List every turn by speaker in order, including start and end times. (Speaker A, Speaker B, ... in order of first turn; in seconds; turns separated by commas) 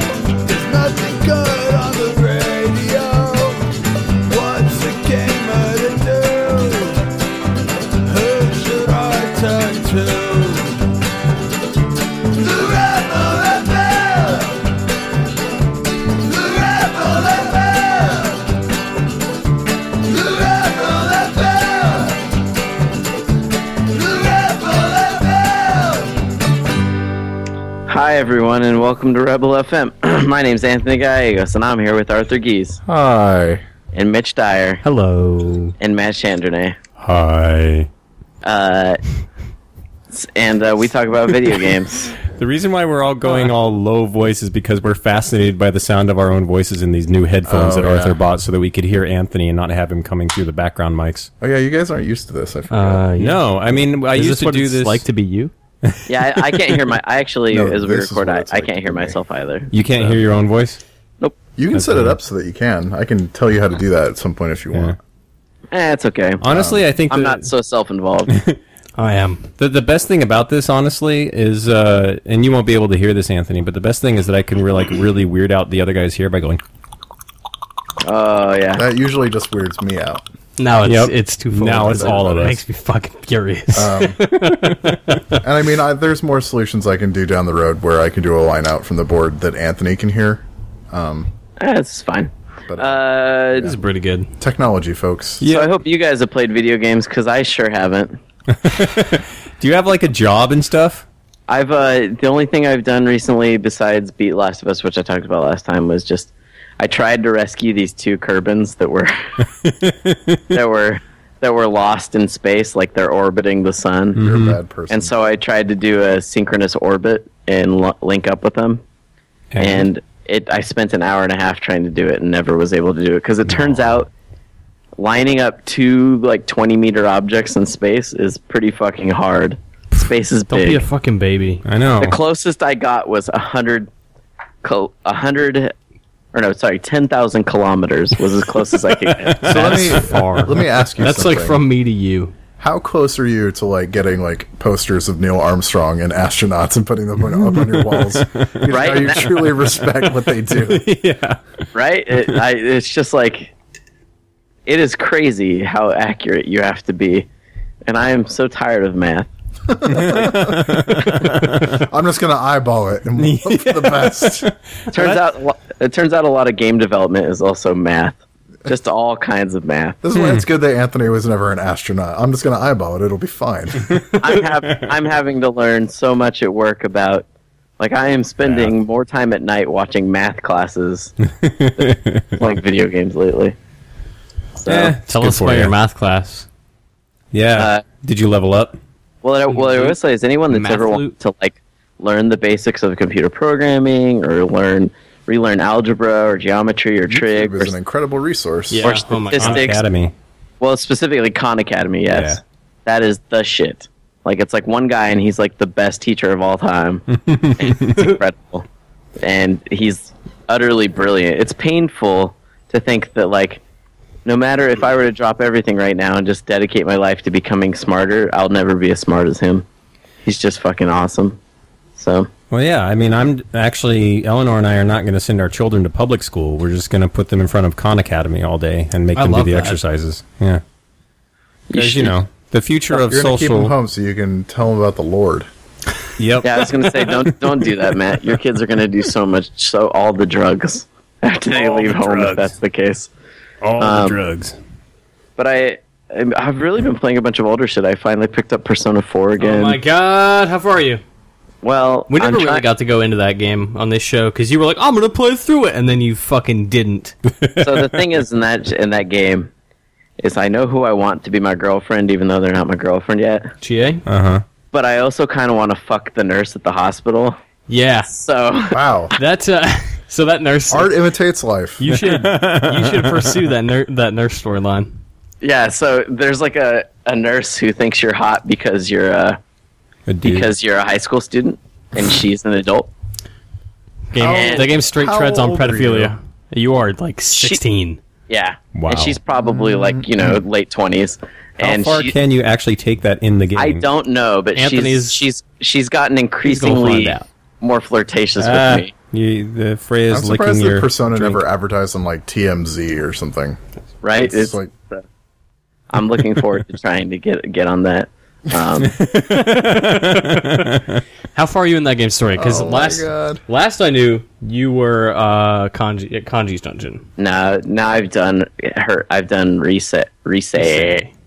Speaker A: 0.4-3.6, Speaker A: 4.2-7.0, Speaker A: 8.0-10.8, Speaker A: 12.3-14.6, Speaker A: 16.2-18.4, Speaker A: 20.1-22.2, Speaker A: 23.8-26.1, Speaker B: 27.9-32.8, Speaker C: 32.9-33.6, Speaker B: 33.9-34.8, Speaker D: 34.8-35.7, Speaker B: 35.8-36.8, Speaker E: 37.0-37.9, Speaker B: 38.4-39.0, Speaker B: 40.1-42.1, Speaker E: 42.2-51.3, Speaker C: 47.5-48.2, Speaker C: 51.4-53.0, Speaker D: 52.7-53.5, Speaker E: 53.2-55.0, Speaker D: 54.0-55.5, Speaker E: 55.8-56.8, Speaker B: 56.1-59.7, Speaker C: 57.5-59.2, Speaker E: 59.7-60.8, Speaker C: 61.5-65.0, Speaker E: 61.7-62.2, Speaker B: 65.7-66.4, Speaker E: 66.4-67.5, Speaker C: 66.5-66.8, Speaker B: 67.1-68.3, Speaker E: 68.3-68.6, Speaker D: 69.0-69.5, Speaker E: 69.6-76.6, Speaker B: 78.0-78.8, Speaker C: 78.7-80.2, Speaker D: 80.6-85.4, Speaker E: 80.8-82.6, Speaker C: 81.8-82.6, Speaker C: 83.7-84.2, Speaker E: 84.3-85.0, Speaker C: 85.3-91.3, Speaker B: 91.6-93.7, Speaker C: 92.7-93.0, Speaker D: 93.6-94.3, Speaker C: 94.4-95.4, Speaker E: 95.4-95.7, Speaker B: 95.4-98.2, Speaker E: 98.5-101.0, Speaker B: 101.5-109.1, Speaker E: 109.6-110.4, Speaker B: 110.5-114.2, Speaker E: 114.2-114.6, Speaker C: 114.2-115.1, Speaker B: 114.9-118.8, Speaker E: 119.5-119.9, Speaker B: 119.6-124.1, Speaker E: 123.5-123.8, Speaker B: 125.0-130.8, Speaker D: 130.5-131.6, Speaker E: 131.7-132.2, Speaker B: 132.0-133.9, Speaker B: 134.6-135.7, Speaker B: 136.3-139.4, Speaker E: 139.1-140.0, Speaker D: 139.4-142.3, Speaker C: 139.4-141.6, Speaker C: 142.6-150.9, Speaker E: 147.3-151.4, Speaker B: 148.7-149.2, Speaker B: 151.7-153.5, Speaker B: 154.7-157.3, Speaker B: 157.9-159.3, Speaker C: 159.7-164.5, Speaker E: 159.9-161.8, Speaker E: 163.2-165.1, Speaker B: 164.9-170.0, Speaker C: 170.0-174.0, Speaker E: 170.1-170.4, Speaker B: 174.2-177.2, Speaker B: 177.8-181.1, Speaker E: 178.4-178.7, Speaker E: 181.4-182.4, Speaker B: 181.8-183.6, Speaker B: 184.6-184.9, Speaker E: 184.7-185.7, Speaker D: 185.1-186.4, Speaker E: 187.3-188.8, Speaker B: 187.5-187.8, Speaker B: 189.2-197.7, Speaker D: 189.5-190.0, Speaker D: 190.5-191.1, Speaker C: 197.1-198.9, Speaker D: 198.7-199.7, Speaker B: 198.8-199.8, Speaker E: 199.3-200.1, Speaker B: 200.6-208.7, Speaker E: 202.1-202.4, Speaker E: 207.3-207.9, Speaker B: 209.2-213.6, Speaker B: 214.2-219.7, Speaker B: 220.2-221.4, Speaker B: 221.9-222.3, Speaker E: 222.5-230.6, Speaker D: 229.1-229.8, Speaker B: 231.7-232.2, Speaker E: 231.7-233.7, Speaker C: 232.9-235.5, Speaker E: 236.2-237.7, Speaker B: 236.4-243.1, Speaker E: 241.5-242.5, Speaker E: 243.6-244.6, Speaker B: 243.8-244.2, Speaker B: 245.4-249.8, Speaker D: 249.4-251.0, Speaker B: 251.6-252.6, Speaker D: 252.1-257.1, Speaker E: 257.4-257.8, Speaker B: 257.6-259.5, Speaker B: 260.2-263.5, Speaker D: 263.6-264.0, Speaker E: 264.1-264.4, Speaker B: 264.7-267.4, Speaker D: 267.7-268.1, Speaker B: 268.1-268.8, Speaker C: 268.7-269.1, Speaker D: 269.1-270.9, Speaker C: 270.7-271.8, Speaker D: 271.8-275.0, Speaker E: 271.9-273.4, Speaker B: 275.4-279.4, Speaker E: 280.1-280.5, Speaker B: 280.2-282.9, Speaker D: 284.1-288.0, Speaker C: 284.2-286.1, Speaker B: 284.2-284.7, Speaker B: 287.3-287.6, Speaker B: 288.3-292.1, Speaker E: 288.7-289.1, Speaker C: 289.4-290.4, Speaker E: 291.6-293.9, Speaker B: 293.6-298.9, Speaker D: 294.6-295.2, Speaker D: 296.4-297.2, Speaker E: 298.4-301.4, Speaker C: 300.1-303.6, Speaker B: 304.0-305.0, Speaker C: 304.2-304.7, Speaker B: 305.9-308.9, Speaker E: 308.8-311.0, Speaker D: 309.9-310.6, Speaker D: 311.3-317.0, Speaker C: 312.3-313.4, Speaker B: 317.2-321.1, Speaker D: 320.6-321.1